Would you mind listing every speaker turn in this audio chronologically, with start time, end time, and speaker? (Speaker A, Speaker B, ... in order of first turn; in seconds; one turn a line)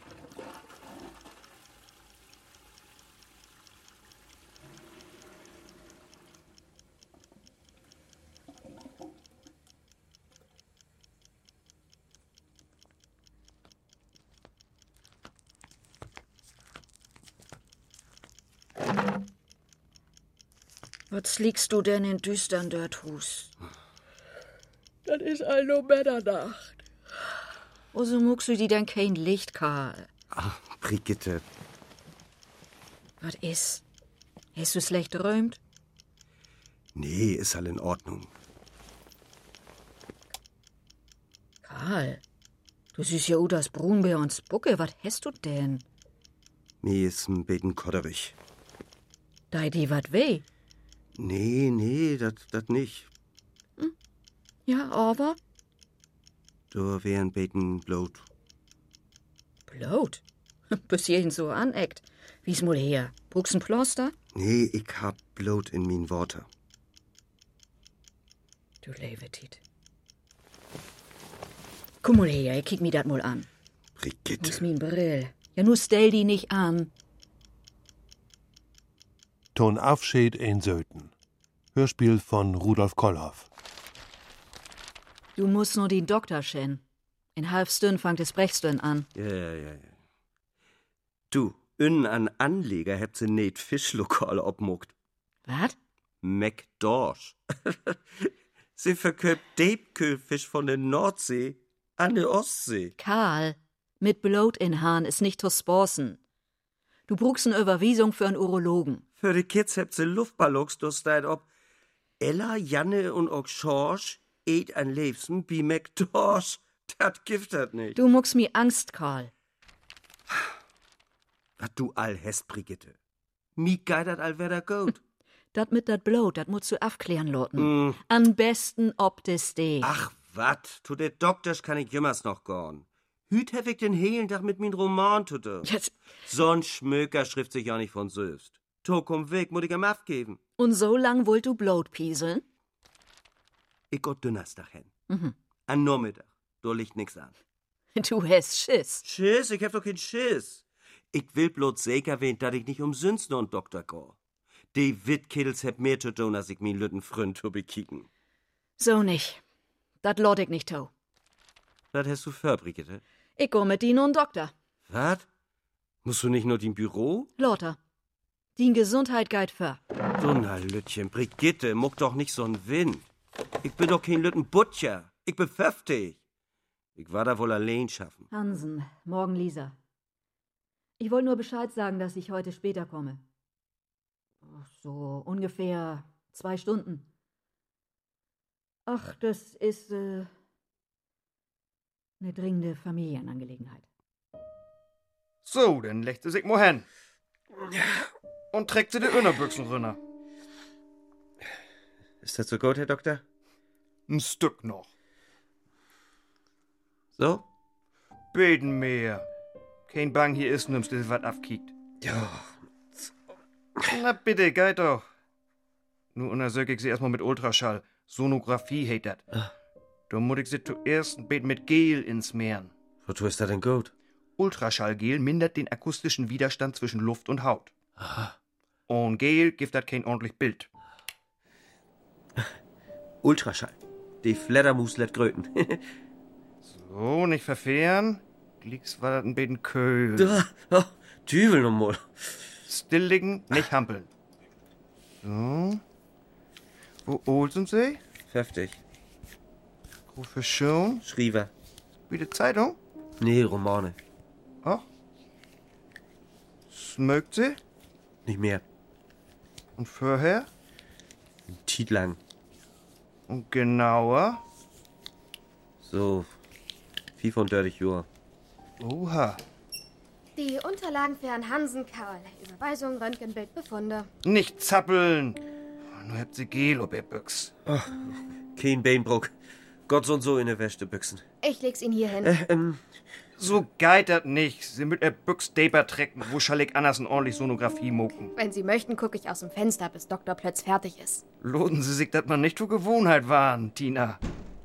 Speaker A: 21.1-23.5
Speaker A: 25.1-26.8
Speaker A: 27.9-30.1
Speaker B: 30.3-31.4
Speaker A: 33.2-33.8
Speaker A: 34.5-35.6
Speaker B: 36.9-38.3
Speaker A: 41.6-42.2
Speaker A: 42.9-45.8
Speaker B: 46.8-48.3
Speaker A: 49.5-50.4
Speaker B: 51.1-53.1
Speaker A: 54.7-55.4
Speaker B: 56.7-58.2
Speaker A: 59.7-64.1
Speaker B: 64.3-66.5
Speaker A: 68.8-69.6
Speaker A: 72.0-73.5
Speaker B: 74.0-74.6
Speaker A: 74.4-76.9
Speaker C: 79.5-81.1
Speaker C: 81.7-83.5
Speaker A: 85.3-86.8
Speaker A: 87.3-89.1
Speaker B: 89.1-89.9
Speaker B: 91.3-94.9
Speaker A: 95.5-95.8
Speaker B: 96.2-102.9
Speaker A: 103.0-106.2
Speaker A: 107.1-109.0
Speaker B: 109.2-111.5
Speaker B: 112.2-118.0
Speaker A: 118.0-119.3
Speaker B: 121.6-123.0
Speaker B: 123.6-125.0
Speaker A: 125.5-129.9
Speaker B: 127.6-128.0
Speaker B: 129.8-135.7
Speaker A: 135.6-135.9
Speaker B: 136.3-140.4
Speaker A: 140.6-142.4
Speaker B: 143.9-144.9
Speaker A: 145.1-145.3
Speaker B: 145.7-147.3
Speaker A: 147.9-149.0
Speaker B: 149.0-154.2
Speaker B: 154.7-158.1
Speaker A: 158.8-159.4
Speaker A: 160.0-160.9
Speaker B: 161.9-163.0
Speaker A: 163.4-164.5
Speaker B: 164.9-165.2
Speaker B: 166.0-167.3
Speaker A: 167.4-167.8
Speaker A: 168.6-169.8
Speaker B: 170.2-173.1
Speaker B: 173.6-176.2
Speaker B: 176.9-178.2
Speaker A: 178.3-179.7
Speaker A: 181.0-183.2
Speaker A: 184.4-187.1
Speaker A: 188.9-190.3
Speaker A: 192.2-193.8
Speaker D: 195.4-196.8
Speaker D: 198.5-200.0
Speaker B: 202.2-203.2
Speaker D: 204.1-204.9
Speaker B: 207.2-207.4
Speaker D: 208.3-209.2
Speaker D: 209.9-211.7
Speaker B: 212.0-213.1
Speaker D: 213.9-215.0
Speaker D: 216.1-219.2
Speaker D: 220.1-222.7
Speaker B: 223.1-223.9
Speaker D: 224.4-227.7
Speaker D: 228.9-230.7
Speaker B: 233.2-235.8
Speaker D: 236.6-240.4
Speaker B: 240.1-242.4
Speaker D: 242.7-244.1
Speaker D: 245.2-245.8
Speaker D: 247.1-248.0
Speaker B: 248.3-248.8
Speaker D: 250.1-251.0
Speaker B: 251.0-251.5
Speaker D: 252.1-252.8
Speaker B: 253.2-253.9
Speaker D: 256.7-257.6
Speaker B: 258.2-258.6
Speaker D: 259.8-260.5
Speaker B: 261.5-262.2
Speaker D: 263.3-264.4
Speaker B: 265.8-266.3
Speaker B: 267.2-268.1
Speaker D: 268.8-269.4
Speaker E: 270.4-274.1
Speaker D: 274.2-275.4
Speaker D: 275.9-277.5
Speaker B: 277.7-278.0
Speaker B: 278.5-279.3
Speaker B: 279.9-281.2
Speaker E: 281.4-282.3
Speaker B: 282.2-282.8
Speaker D: 283.4-288.3
Speaker E: 288.4-291.2
Speaker D: 291.4-294.2